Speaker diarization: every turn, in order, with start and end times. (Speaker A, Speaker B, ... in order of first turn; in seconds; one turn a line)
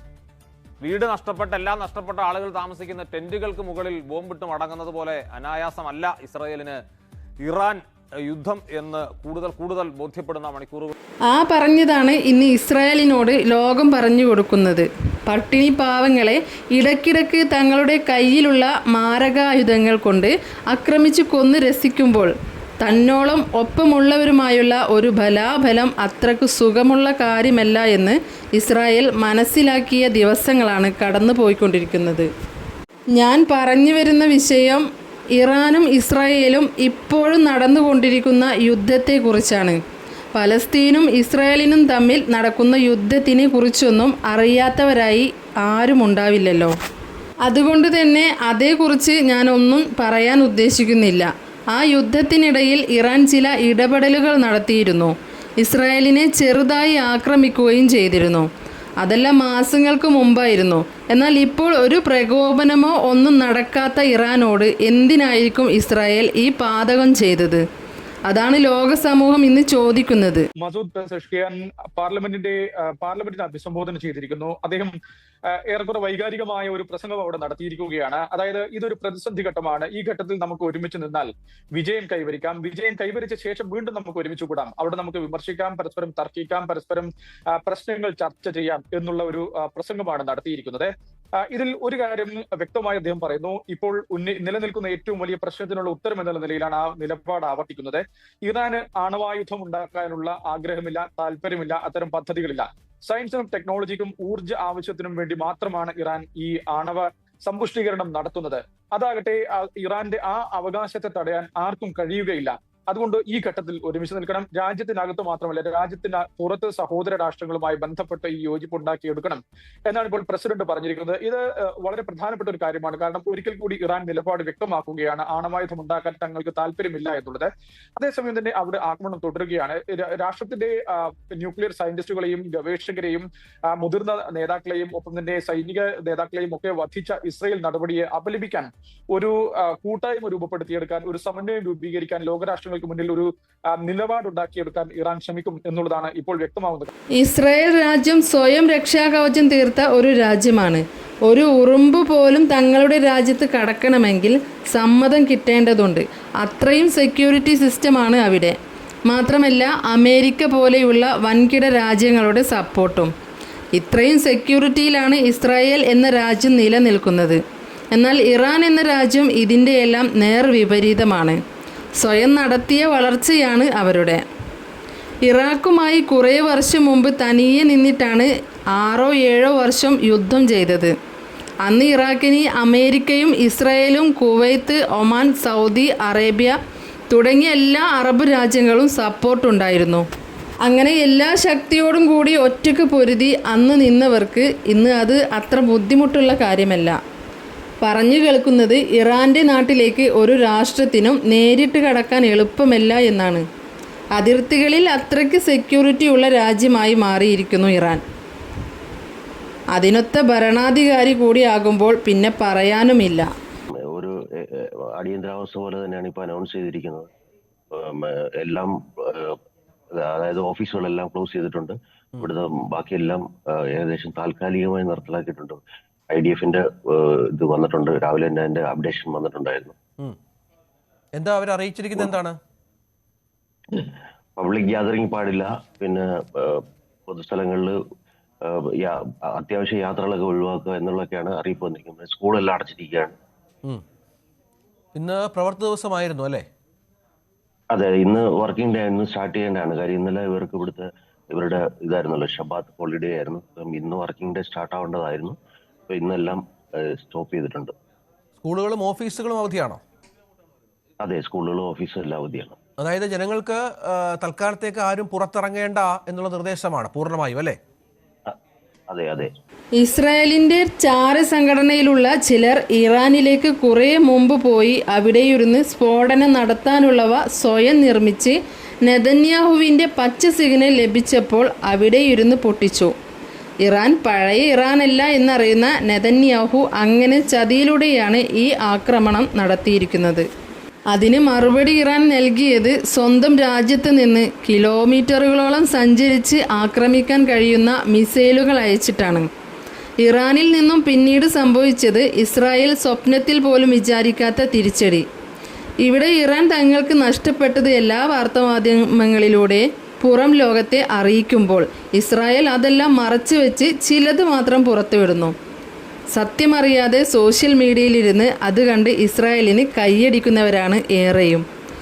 Speaker A: 0.8-6.8
Speaker A: 7.4-10.9
Speaker B: 11.3-32.3
Speaker B: 33.1-34.9
Speaker B: 35.4-39.8
Speaker B: 40.3-46.7
Speaker B: 47.5-58.5
Speaker B: 59.0-67.6
Speaker B: 68.3-70.5
Speaker C: 70.6-75.0
Speaker C: 75.5-90.9
Speaker C: 91.5-146.9
Speaker B: 147.2-163.1
Speaker B: 163.8-167.4
Speaker B: 167.9-171.4
Speaker B: 172.0-174.2
Speaker B: 175.3-180.9
Speaker B: 181.6-186.6
Speaker B: 187.1-190.1
Speaker B: 190.6-197.0
Speaker B: 197.8-203.4
Speaker B: 204.2-208.0
Speaker B: 209.7-213.3
Speaker D: 213.9-217.1
Speaker D: 217.7-219.4
Speaker D: 220.0-229.8
Speaker E: 231.2-232.4
Speaker D: 233.7-237.8
Speaker D: 238.4-243.2
Speaker E: 244.9-246.5
Speaker D: 247.7-255.4
Speaker D: 255.9-257.7
Speaker E: 258.4-259.8
Speaker D: 261.0-262.6
Speaker E: 262.8-267.6
Speaker D: 268.9-269.3
Speaker B: 269.8-282.9
Speaker B: 283.6-290.3
Speaker B: 290.9-299.3
Speaker B: 300.0-305.1
Speaker B: 305.8-315.3
Speaker B: 316.1-321.4